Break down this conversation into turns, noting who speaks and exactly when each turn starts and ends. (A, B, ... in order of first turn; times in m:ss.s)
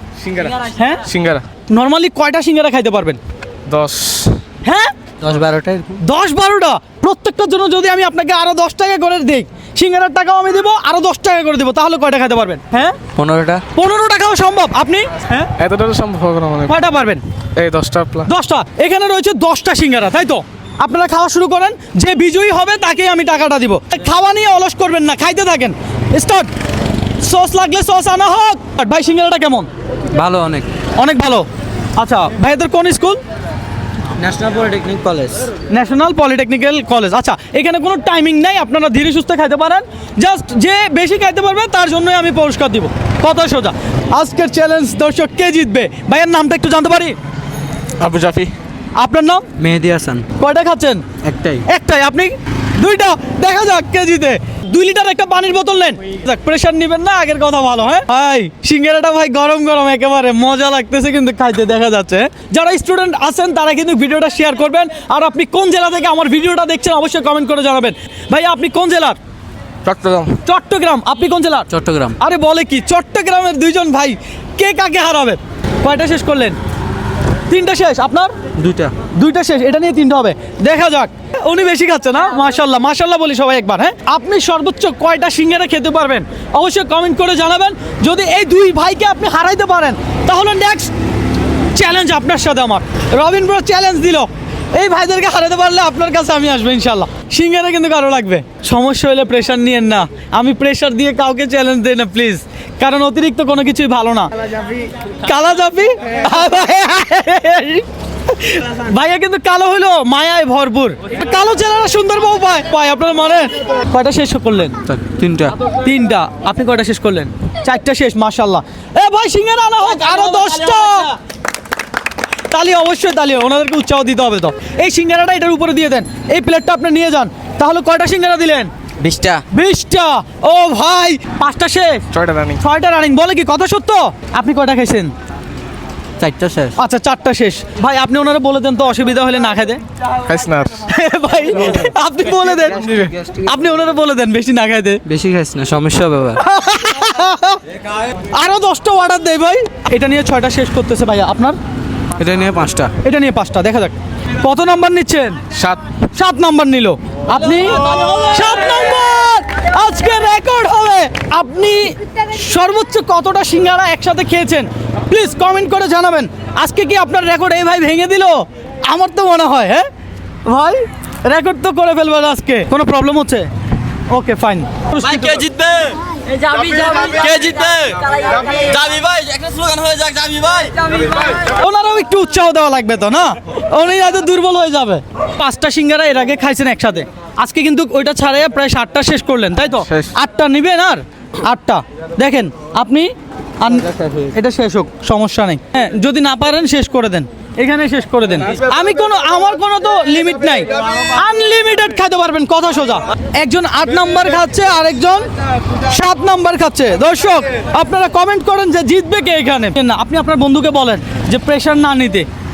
0:00.2-0:01.4 A
0:00.7-0:01.0 B
0:01.7-0:03.2 B
0:03.7-0:04.4 A
0:04.6-0:04.9 B
0:05.2-0:06.0 C
0:06.0-0:13.0 B
0:13.2-0:13.6 C
0:13.7-0:15.5 B
0:15.6-0:16.8 A
0:16.7-0:17.2 B
0:17.6-0:18.3 A
0:18.2-0:26.5 B
0:27.2-0:29.7 B
0:30.1-0:30.7 C
0:31.0-0:33.2 B
0:34.2-0:35.5 C
0:35.7-0:47.2 B
0:48.0-0:48.5 A
0:49.0-0:49.4 B
0:49.6-0:50.2 C
0:50.4-0:51.0 B
0:51.2-0:51.6 C
0:51.6-1:09.2 B
1:09.8-1:10.4 A
1:10.4-1:16.6 B
1:11.7-1:12.2 C
1:17.5-1:18.3 B
1:18.6-1:18.9 C
1:19.1-1:30.9 B
1:31.7-1:44.3 B
1:45.2-1:54.8 B
1:54.8-1:55.5 C
1:55.8-2:01.1 B
2:02.5-2:08.7 B
2:09.0-2:09.4 D
2:09.5-2:12.1 B
2:12.1-2:12.6 A
2:12.6-2:15.1 B
2:16.2-2:16.7 C
2:16.8-2:19.8 B
2:20.2-2:20.8 A
2:20.8-2:25.0 B
2:22.8-2:23.1 A
2:25.0-2:26.4 C
2:26.4-2:27.6 B
2:28.3-2:31.6 B
2:32.2-2:32.9 C
2:33.0-2:35.4 B
2:35.5-2:35.8 A
2:36.1-2:49.9 B
2:50.4-2:53.5 B
2:54.1-2:55.4 B
2:55.0-3:00.9 D
2:56.2-2:57.5 C
2:58.1-2:58.7 C
3:01.4-3:25.3 B
3:09.8-3:10.1 A
3:25.8-3:32.3 B